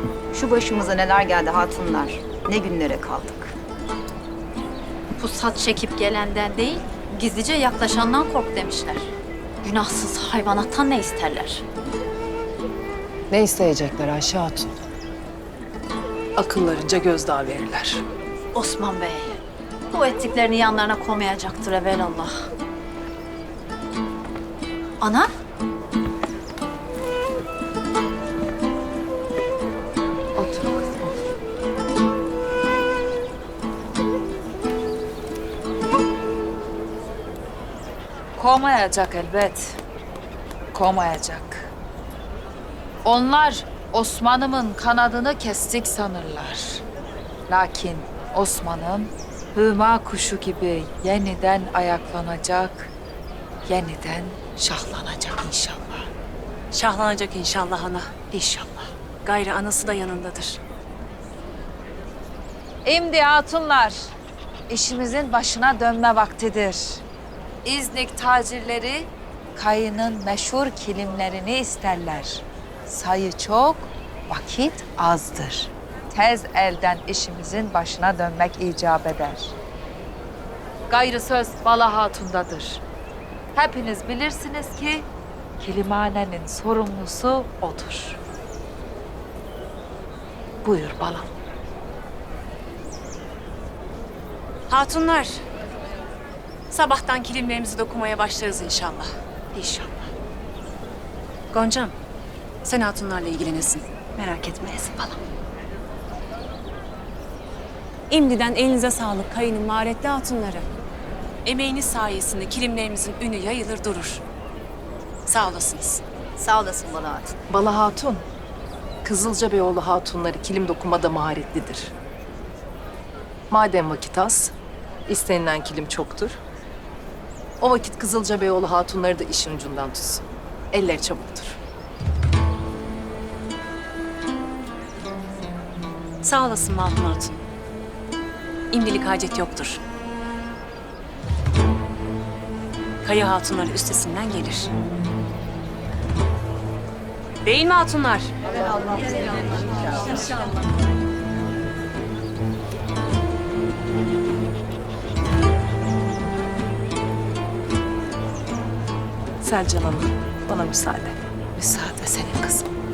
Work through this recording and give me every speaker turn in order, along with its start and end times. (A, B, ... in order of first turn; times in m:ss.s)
0:00.3-0:03.5 A
0:05.2-0:11.6 B
0:13.3-0:14.7 C
0:16.4-0:18.0 C
0:18.5-0:19.4 B
0:19.9-0:22.4 B
0:25.0-0:25.3 B
0:30.4-0:31.2 D
0:38.4-0:39.8 D
0:40.7-0:41.7 D
0:43.0-0:46.8 D
0:47.5-0:52.9 D
0:53.6-0:56.1 D
0:56.7-0:58.1 E
0:58.3-0:58.9 D
0:59.2-1:00.6 E
1:02.8-1:04.1 D
1:04.7-1:07.0 D
1:07.6-1:19.5 D
1:20.9-1:22.8 D
1:23.5-1:25.1 D
1:25.6-1:28.2 D
1:30.6-1:31.3 D
1:34.7-1:35.4 E
1:36.7-1:39.1 E
1:39.5-1:40.1 D
1:41.5-1:41.9 E
1:42.6-1:45.2 E
1:48.1-1:50.7 E
1:51.4-1:54.2 E
1:55.2-1:56.0 E
1:56.4-1:57.3 A
1:57.5-1:58.2 C
1:59.0-2:01.9 C
2:03.5-2:04.5 C
2:05.1-2:06.4 C
2:07.6-2:11.6 C
2:16.2-2:17.4 E
2:18.7-2:19.8 E
2:23.0-2:24.7 E
2:27.4-2:28.3 E
2:39.4-2:42.7 C